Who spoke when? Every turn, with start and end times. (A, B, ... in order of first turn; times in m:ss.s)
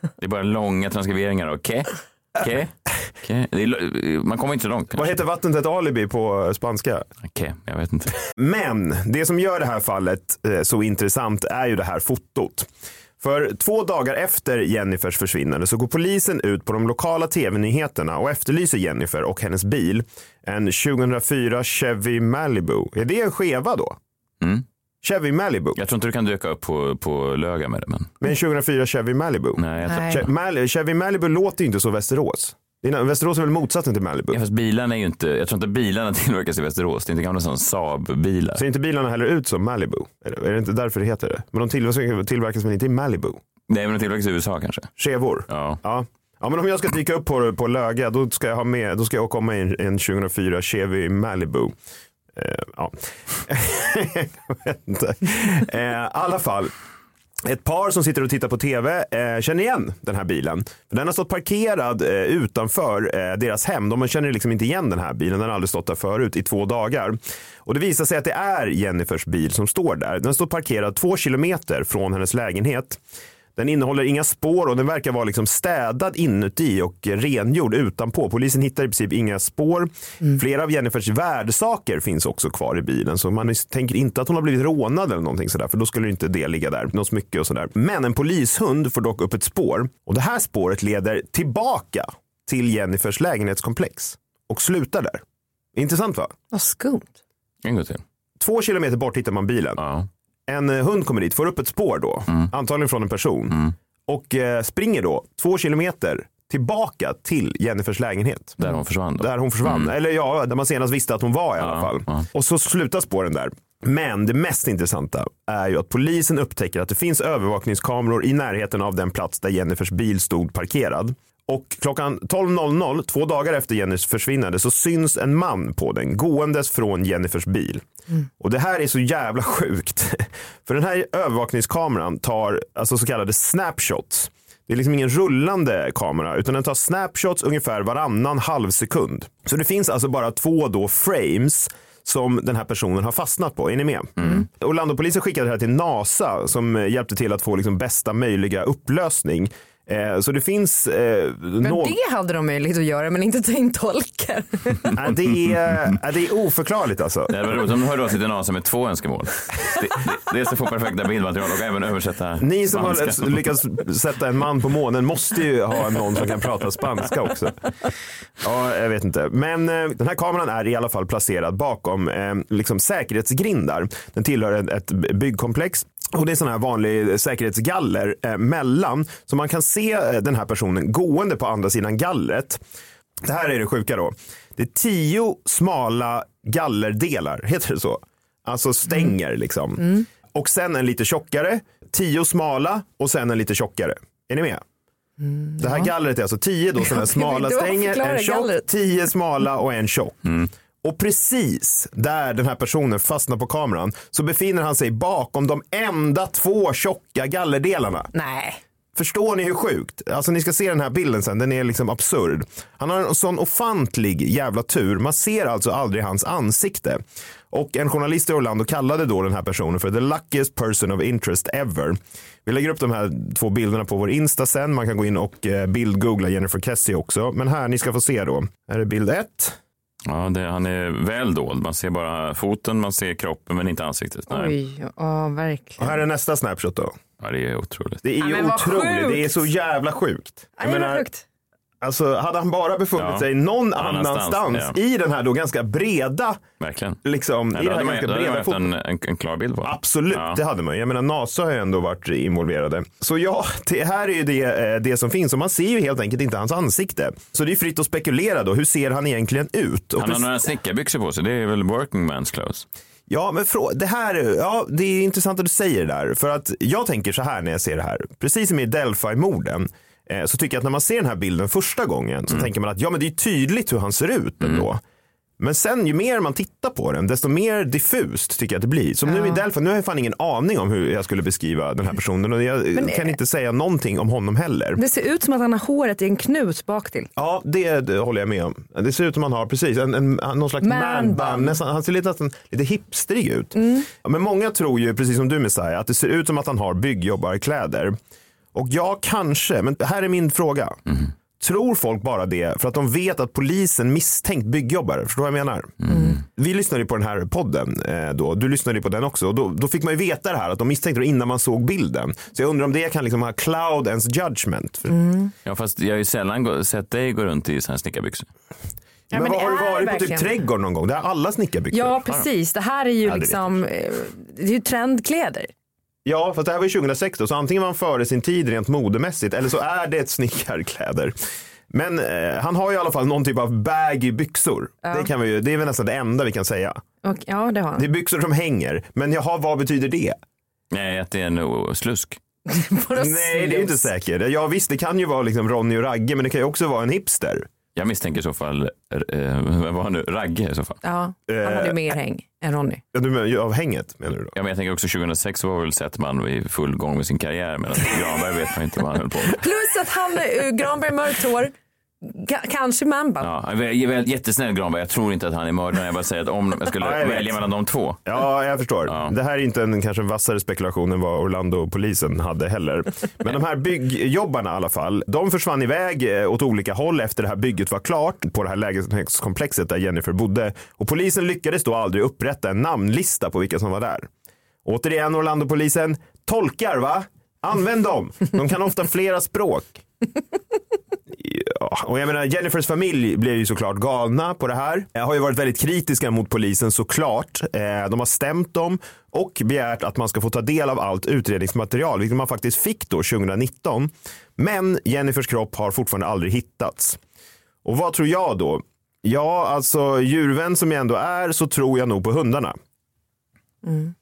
0:00.2-0:05.2 A
0:04.9-0:07.1 B
0:07.2-0:08.2 A
0:08.4-0:12.7 B
0:13.2-0:24.0 B
0:25.0-0:25.8 B
0:25.8-0:28.1 A
0:28.2-0:34.4 B
0:29.6-0:30.3 A
0:34.3-0:38.6 A
0:38.6-0:43.4 B
0:43.7-0:44.9 A
0:45.0-0:51.8 B
0:45.5-0:45.8 A
0:52.4-0:56.7 B
0:57.4-1:13.0 B
1:13.6-1:35.2 B
1:35.8-1:36.3 B
1:36.5-1:37.2 C
1:37.6-1:38.0 A
1:38.4-1:39.8 B
1:39.8-1:40.1 A
1:40.5-1:43.6 B
1:44.1-1:48.6 B
1:48.6-1:49.9 A
1:49.2-2:07.8 B
1:51.6-1:52.3 A
2:08.4-2:32.0 B
2:24.2-2:24.5 A
2:31.6-2:34.9 C
2:34.9-2:37.6 B
2:37.3-2:43.4 A
2:42.4-2:47.6 B
2:48.4-3:02.6 B
3:03.2-3:14.6 B
3:15.2-3:15.9 C
3:15.6-3:20.3 B
3:16.8-3:18.7 C
3:20.8-3:28.1 B
3:28.1-3:28.6 C
3:29.0-3:49.6 B
3:50.1-3:54.5 A
3:54.3-3:55.8 C
3:55.8-3:57.0 B
3:57.2-3:58.0 A
3:58.0-4:01.0 B
3:58.2-3:59.5 C
4:00.6-4:01.2 C
4:01.8-4:06.4 B
4:03.0-4:04.8 A
4:06.6-4:07.0 A
4:07.0-4:08.7 B
4:07.5-4:10.4 A
4:09.6-4:20.3 B
4:20.0-4:22.7 A
4:23.1-4:34.8 B
4:35.4-4:44.8 B
4:39.1-4:39.4 C
4:42.8-4:43.2 C
4:44.8-4:47.1 C
4:47.2-4:58.0 B
4:50.6-4:51.6 C
4:53.6-4:53.9 C
4:58.5-5:00.8 B
5:01.4-5:14.9 B
5:05.8-5:06.2 A
5:05.9-5:06.2 C
5:14.9-5:15.3 C
5:15.4-5:18.3 A
5:19.1-5:22.0 B
5:19.1-5:20.3 C
5:21.7-5:25.5 C
5:23.1-5:23.6 B
5:26.0-5:31.1 B
5:31.7-5:36.8 B
5:34.8-5:35.1 C
5:37.0-5:37.9 C
5:37.8-5:40.2 B
5:40.7-5:42.2 A
5:42.5-5:43.9 C
5:43.0-5:47.5 B
5:47.8-5:50.8 A
5:50.8-5:52.8 C
5:51.3-5:51.8 B
5:52.9-5:54.3 B
5:54.4-5:59.4 A
5:59.3-6:03.3 C
6:03.2-6:08.0 A
6:06.8-6:07.4 B
6:08.1-6:24.1 B
6:08.9-6:09.1 A
6:24.6-6:29.8 B
6:31.1-6:47.0 B
6:47.6-6:52.6 B
6:53.6-6:53.9 C